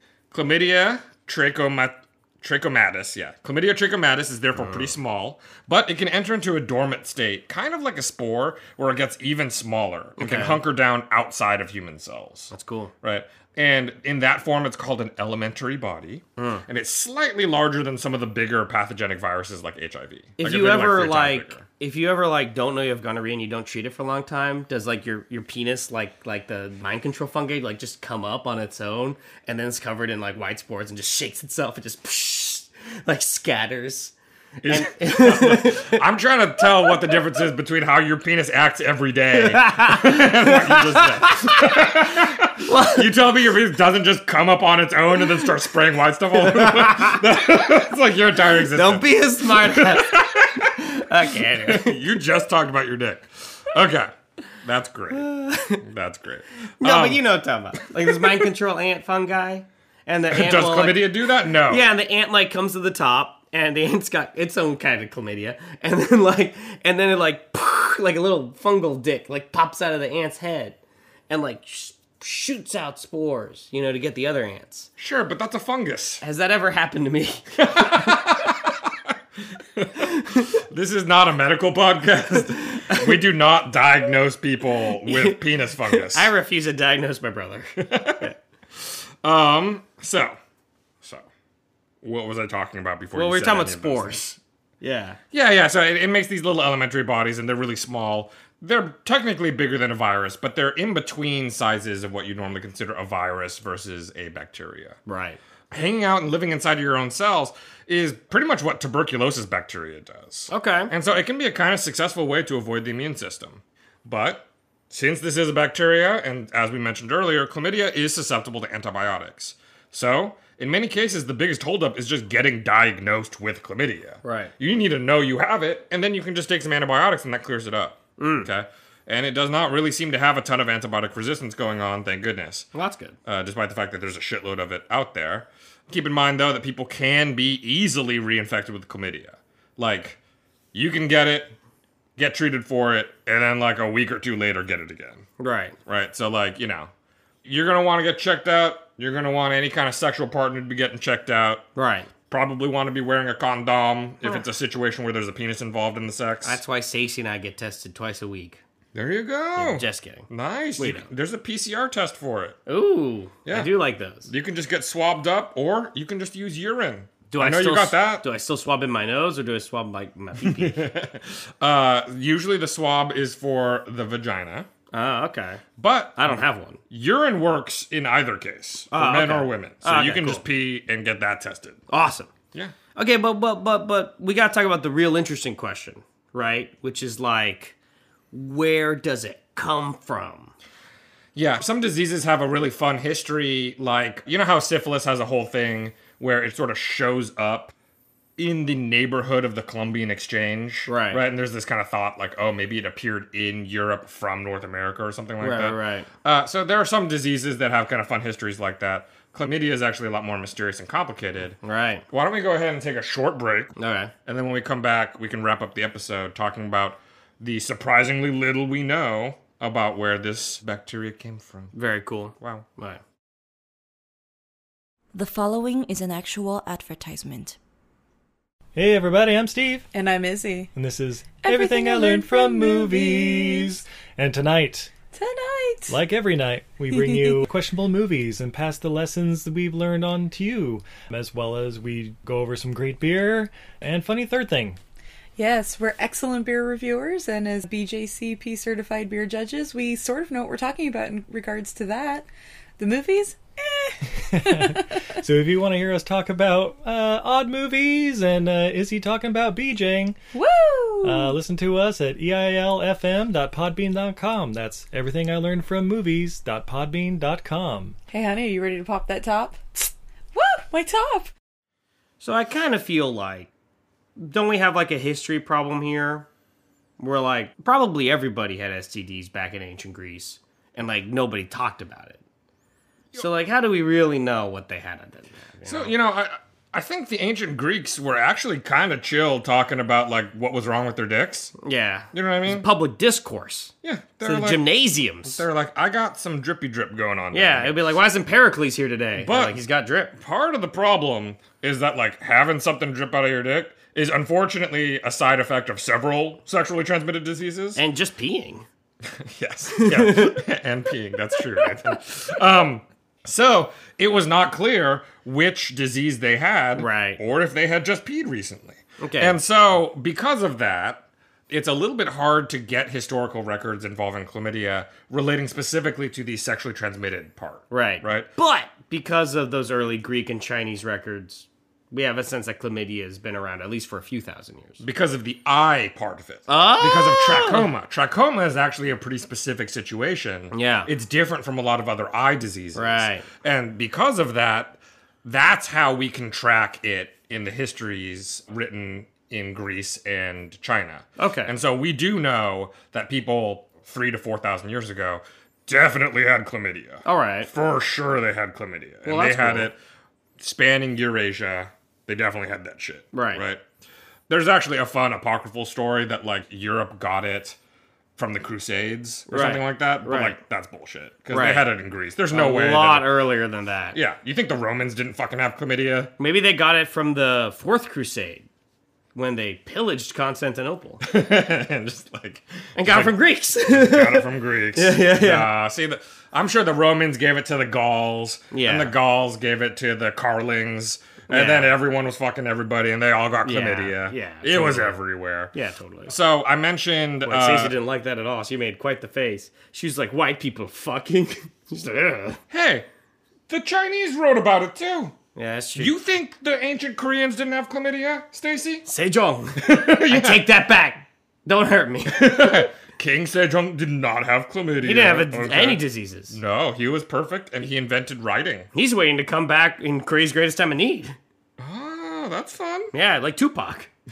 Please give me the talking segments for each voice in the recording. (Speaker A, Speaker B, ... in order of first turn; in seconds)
Speaker A: 0.3-21.6, 34.6-50.8, 51.5-57.2, 58.0-58.5, 60.3-61.9, 75.0-76.2, 77.6-86.3, 87.8-90.4, 91.0-91.3, 92.0-94.2, 95.3-105.0, 105.7-132.7, 133.2-140.2, 140.7-141.6, 142.2-145.2, 145.8-146.9, 147.4-151.7, 152.3-156.6, 158.9-162.6, 163.4-168.2, 170.4-174.7, 175.8-181.8, 191.3-197.7, 198.4-211.6, 212.1-221.7, 222.4-222.7, 285.6-291.5, 292.1-292.7, 293.8-294.6, 295.2-297.8, 299.1-299.6, 300.1-307.8, 309.0-328.3, 334.8-359.8, 360.4-363.6, 364.3-367.6, 368.2-373.1, 373.9-376.1, 381.0-395.5, 396.1-397.8, 402.5-402.9, 403.5-405.1, 405.8-408.9, 409.6-410.5, 412.1-418.7, 421.6-422.9
Speaker B: 4.5-4.9, 10.2-10.6, 12.5-12.9, 16.4-16.6, 20.4-36.0, 39.3-41.8, 42.6-43.1, 46.4-47.2, 48.7-52.0, 55.1-55.8, 56.8-70.8, 71.3-74.9, 76.2-78.3, 80.0-80.5, 82.5-83.2, 85.0-88.3, 93.1-95.2, 105.1-105.4, 110.5-110.9, 124.2-124.5, 128.2-128.5, 132.7-133.2, 145.4-145.8, 151.7-152.1, 156.4-158.6, 159.6-161.1, 162.7-164.3, 167.3-170.9, 174.9-175.6, 176.2-176.8, 178.9-180.4, 181.9-182.3, 182.9-187.7, 188.3-190.5, 200.9-201.2, 205.4-206.1, 211.6-212.0, 213.8-214.1, 221.7-223.0, 272.2-273.5, 274.2-276.3, 277.0-282.2, 283.1-285.9, 291.6-295.4, 297.3-300.1, 307.8-308.6, 309.7-310.4, 316.8-317.2, 319.0-319.4, 327.7-334.8, 336.5-337.6, 340.5-340.9, 342.7-343.3, 351.2-351.5, 357.0-357.5, 359.0-359.7, 363.1-363.4, 369.3-370.4, 371.3-371.7, 372.3-374.0, 376.2-378.4, 379.1-381.0, 382.8-385.5, 388.5-388.9, 391.3-391.7, 393.4-395.0, 395.5-396.1, 397.2-402.4, 405.3-405.9, 408.9-412.7, 414.8-416.4, 418.7-421.1, 422.9-423.9
Speaker C: 225.1-227.6
Speaker D: 228.7-229.9, 230.7-234.9, 235.9-244.8, 254.3-260.2, 261.0-267.9
Speaker E: 229.9-230.7, 231.3-233.8, 235.1-236.0, 236.9-237.4, 245.3-252.3, 252.8-254.9, 260.3-261.4, 268.1-271.3